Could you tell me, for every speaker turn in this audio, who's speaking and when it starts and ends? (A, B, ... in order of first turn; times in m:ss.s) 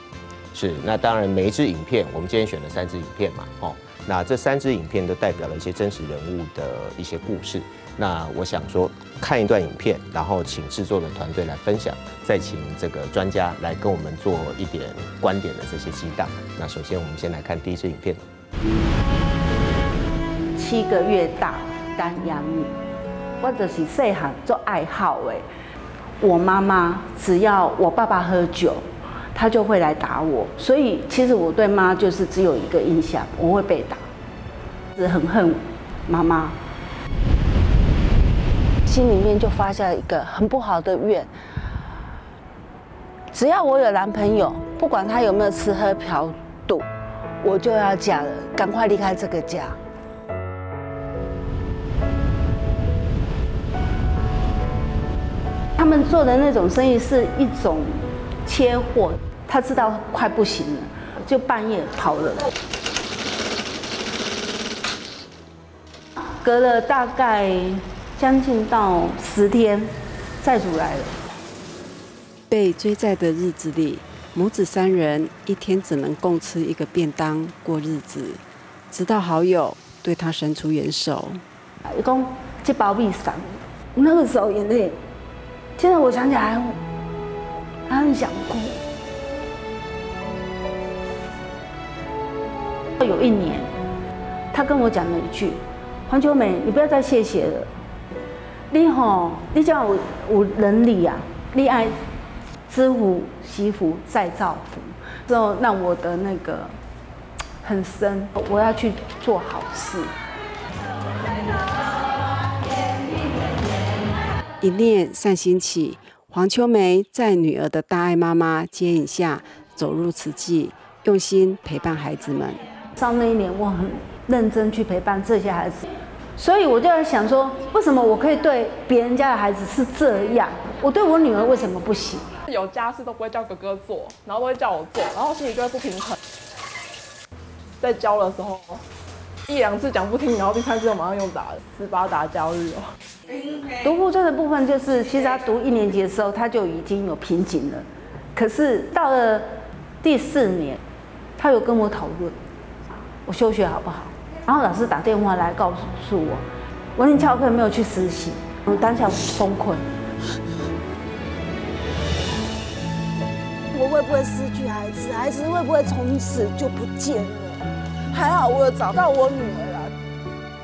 0:00.5-0:18.2 A
0:20.6-0:22.7 B
0:23.4-0:25.4 B
0:26.2-0:34.0 B
0:35.0-0:36.6 B
0:38.8-0:41.3 B
0:43.3-0:46.8 B
0:47.4-0:49.8 B
0:55.8-1:02.4 B
1:06.4-1:11.2 B
1:12.5-1:21.4 C
1:21.9-1:25.0 B
1:25.8-1:26.8 B
1:27.9-1:28.8 B
1:33.0-1:33.7 B
1:34.5-1:37.7 B
1:38.7-1:42.0 B
1:42.7-1:46.8 B
1:47.6-1:50.1 B
1:54.6-2:02.6 C
2:02.9-2:05.8 B
2:06.4-2:12.4 B
2:12.4-2:16.1 D
2:17.8-2:18.8 D
2:19.5-2:22.9 D
2:23.8-2:30.8 B
2:31.4-2:32.3 B
2:33.2-2:39.8 B
2:43.7-2:49.9 E